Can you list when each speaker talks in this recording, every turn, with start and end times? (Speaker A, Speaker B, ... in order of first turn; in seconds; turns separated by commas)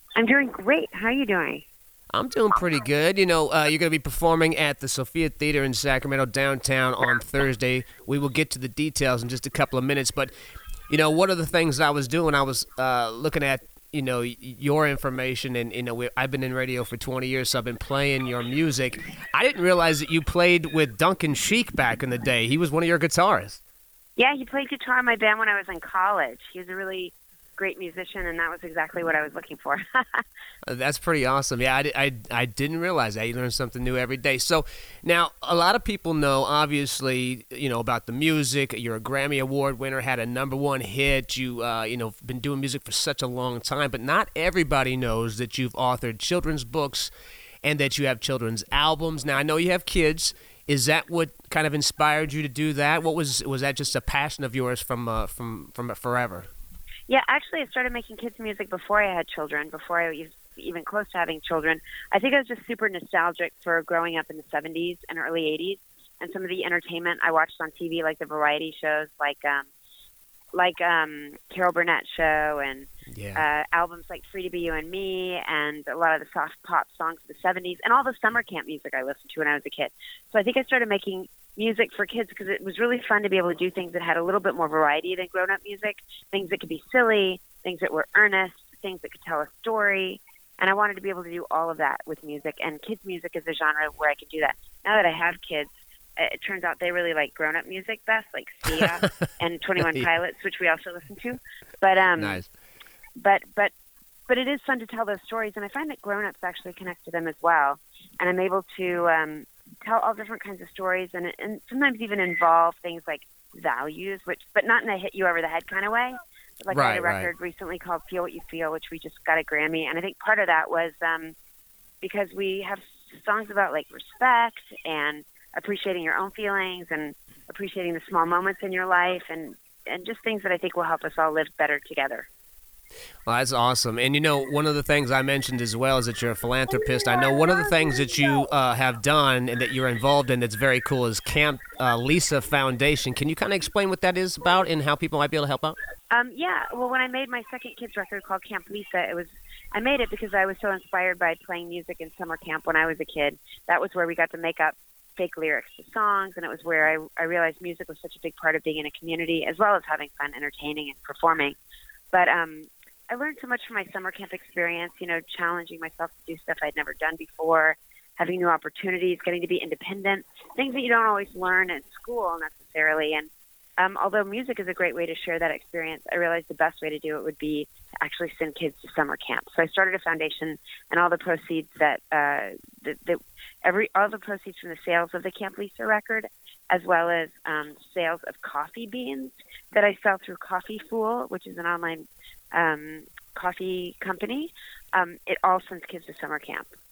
Speaker A: 0.2-1.6, Speaker B: 2.1-10.3, Speaker B: 10.9-23.6, Speaker A: 24.2-30.2, Speaker B: 30.7-47.1, Speaker B: 47.6-56.5, Speaker A: 57.1-69.7, Speaker A: 70.5-102.4, Speaker B: 73.1-73.4, Speaker B: 102.2-102.5, Speaker A: 103.2-103.7, Speaker A: 104.3-121.3, Speaker B: 116.7-117.3, Speaker A: 122.0-132.3, Speaker B: 133.3-145.8, Speaker A: 146.1-161.6, Speaker A: 162.1-196.7